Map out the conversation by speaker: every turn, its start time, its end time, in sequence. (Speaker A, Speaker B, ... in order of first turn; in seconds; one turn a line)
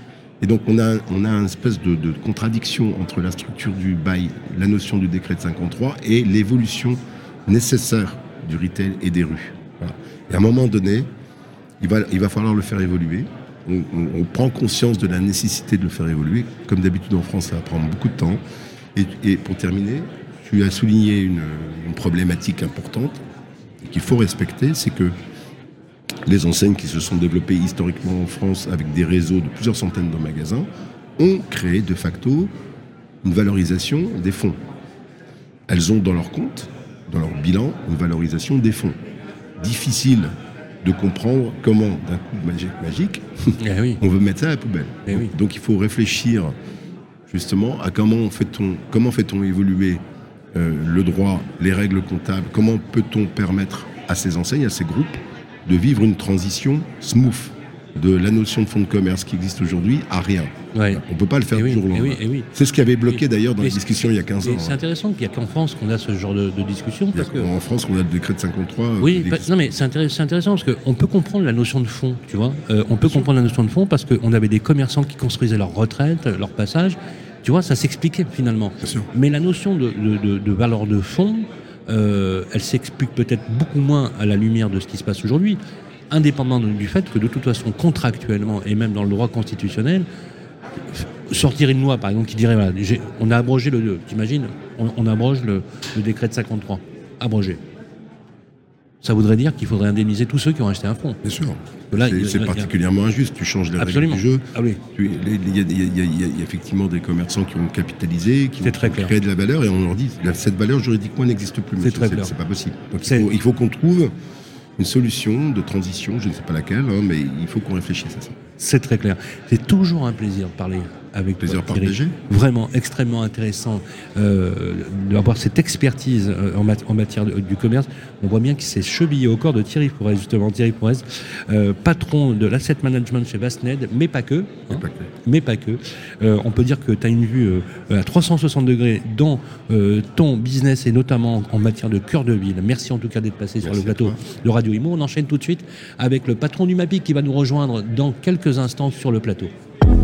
Speaker A: 0.4-11.1
Speaker A: 11.8-18.4
Speaker A: 18.9-23.2
Speaker A: 23.8-25.1
Speaker A: 26.2-32.5
Speaker A: 33.2-34.6
Speaker A: 35.7-39.0
Speaker A: 39.6-46.5
Speaker B: 43.6-44.0
Speaker B: 45.1-45.3
Speaker A: 47.3-50.0
Speaker A: 50.5-64.8
Speaker B: 60.7-61.0
Speaker B: 61.5-62.5
Speaker B: 63.2-63.9
Speaker B: 64.4-67.5
Speaker A: 67.1-69.8
Speaker B: 69.0-90.1
Speaker A: 73.0-73.3
Speaker A: 78.8-79.1
Speaker B: 90.9-97.6
Speaker B: 99.0-101.2
Speaker A: 101.2-114.1
Speaker B: 101.9-102.7
Speaker B: 103.8-104.8
Speaker B: 108.6-109.1
Speaker B: 111.8-112.3
Speaker A: 114.8-118.4
Speaker B: 118.6-149.5
Speaker A: 121.4-122.2
Speaker A: 134.7-135.1
Speaker A: 143.6-144.2